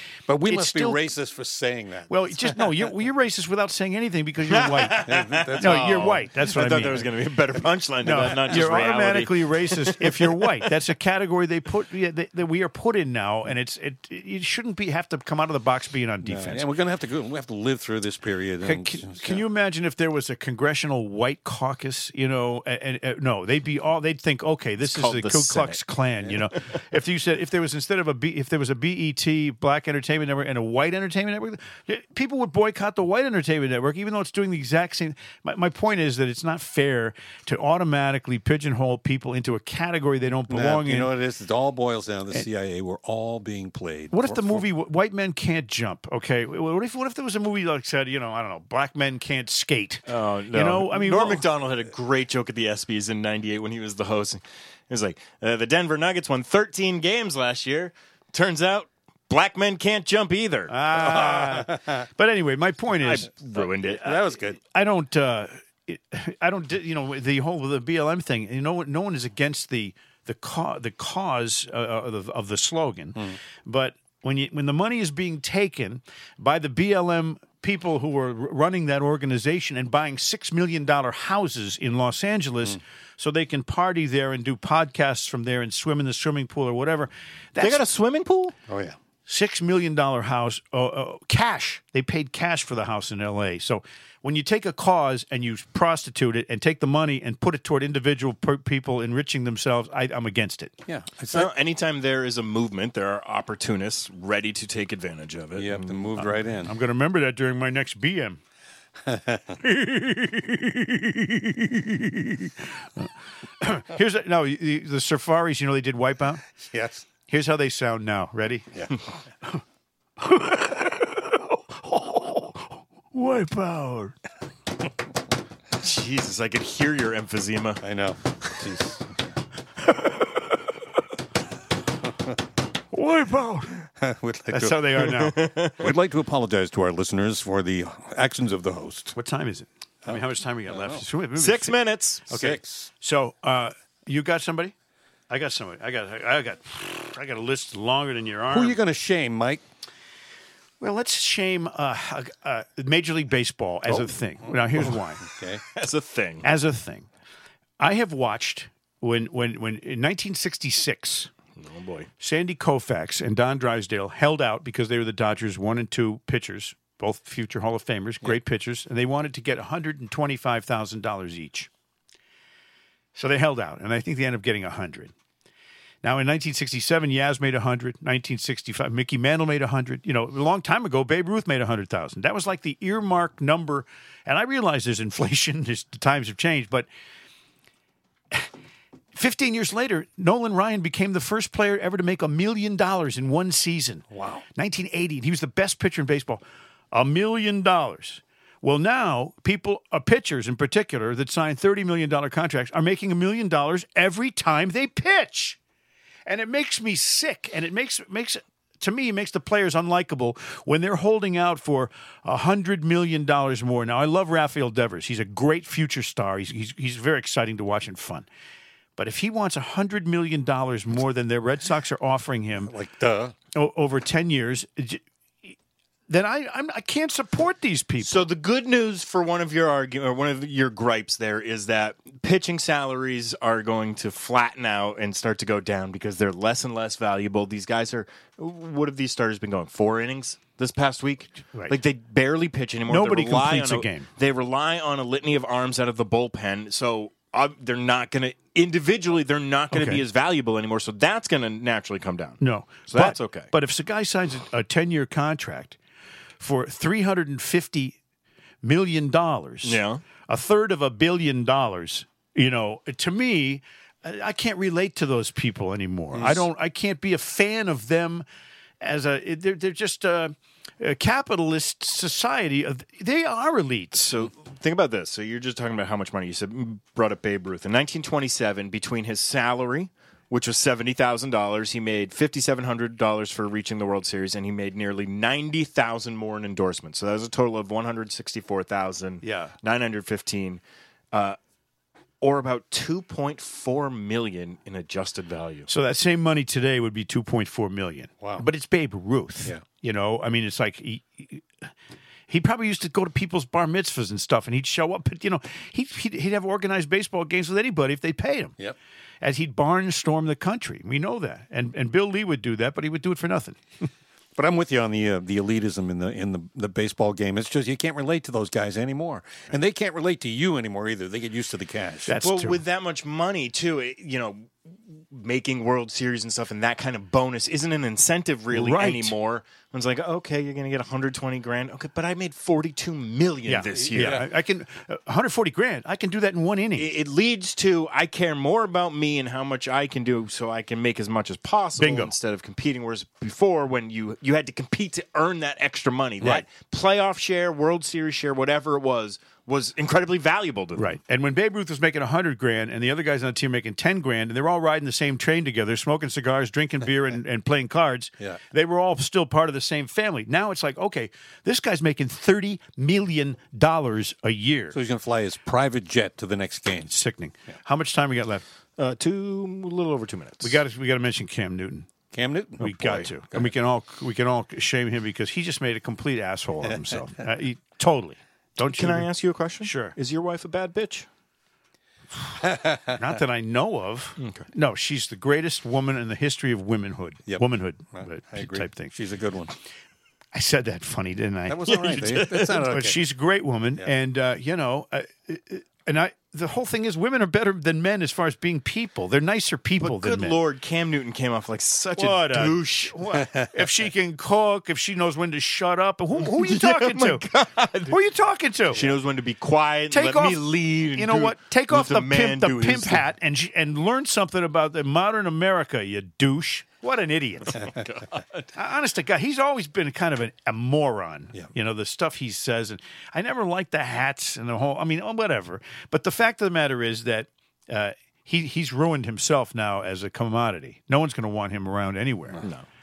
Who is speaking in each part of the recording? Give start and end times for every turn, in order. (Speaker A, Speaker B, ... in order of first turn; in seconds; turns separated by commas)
Speaker A: 0.3-2.9, Speaker B: 0.4-1.1, Speaker B: 2.1-5.0, Speaker C: 4.5-10.7, Speaker A: 5.0-6.2, Speaker B: 5.5-7.1, Speaker B: 8.0-16.7, Speaker A: 16.2-19.4, Speaker B: 18.6-41.1, Speaker C: 24.8-25.8, Speaker A: 40.5-44.7, Speaker B: 44.1-51.5, Speaker C: 50.1-60.7, Speaker B: 60.7-63.3, Speaker A: 60.9-62.0, Speaker C: 62.9-64.0, Speaker A: 63.5-64.6, Speaker B: 64.0-87.8, Speaker C: 87.6-88.5, Speaker A: 88.7-89.0, Speaker B: 89.3-100.7, Speaker A: 100.9-101.5, Speaker C: 101.3-106.1, Speaker A: 105.6-106.7, Speaker B: 106.2-108.4, Speaker B: 109.3-113.1, Speaker B: 113.6-116.4, Speaker A: 116.7-117.0, Speaker B: 117.2-118.9, Speaker B: 120.2-124.2, Speaker C: 125.8-127.8, Speaker A: 127.8-129.1, Speaker B: 129.9-130.4, Speaker B: 132.9-133.8, Speaker A: 134.0-135.2, Speaker B: 134.5-135.4, Speaker C: 135.1-135.9, Speaker A: 135.8-139.2, Speaker B: 139.1-144.7, Speaker A: 140.0-141.1, Speaker C: 141.3-142.3, Speaker A: 142.3-142.9, Speaker B: 145.3-148.8, Speaker A: 148.5-149.6, Speaker B: 150.8-155.2, Speaker A: 153.9-155.6, Speaker C: 155.7-156.5, Speaker B: 156.4-157.1, Speaker B: 157.8-161.3, Speaker C: 161.6-162.1, Speaker B: 162.2-171.7, Speaker B: 173.1-175.1, Speaker B: 176.0-186.9, Speaker B: 189.1-205.6, Speaker A: 194.1-194.4, Speaker B: 206.2-218.3, Speaker B: 218.9-222.7, Speaker A: 222.6-223.3, Speaker B: 223.5-225.5, Speaker B: 226.1-228.3, Speaker C: 228.0-253.5, Speaker B: 242.9-244.1, Speaker B: 249.7-250.0, Speaker B: 252.4-255.8, Speaker B: 256.4-258.0, Speaker B: 258.6-268.2, Speaker C: 259.6-260.0, Speaker A: 266.1-266.5, Speaker B: 268.8-274.1, Speaker C: 273.9-291.4, Speaker B: 289.2-289.5, Speaker C: 292.2-295.7, Speaker B: 295.7-301.5, Speaker B: 302.3-308.6, Speaker B: 309.2-313.6, Speaker A: 314.4-322.2, Speaker B: 322.0-322.6, Speaker C: 322.2-334.2, Speaker B: 328.5-329.1, Speaker B: 333.5-336.9, Speaker A: 333.9-334.3, Speaker C: 336.8-350.9, Speaker B: 341.8-342.1, Speaker B: 346.2-346.4, Speaker B: 350.8-364.8, Speaker A: 364.7-366.9, Speaker B: 366.8-368.4, Speaker C: 368.8-370.6, Speaker B: 370.4-371.9, Speaker A: 372.1-373.5, Speaker B: 372.6-379.1, Speaker C: 378.7-381.1, Speaker B: 379.6-379.9, Speaker A: 382.5-382.9, Speaker B: 382.8-388.9, Speaker C: 384.2-384.4, Speaker A: 387.3-389.5, Speaker B: 390.3-391.9, Speaker A: 391.5-393.0, Speaker C: 391.7-392.6, Speaker B: 392.5-400.4, Speaker C: 399.8-403.0, Speaker B: 401.9-407.2, Speaker A: 403.2-403.5, Speaker C: 406.2-407.9, Speaker B: 407.9-408.8, Speaker C: 408.7-413.0, Speaker B: 409.9-417.7, Speaker C: 417.5-418.4, Speaker B: 418.5-432.4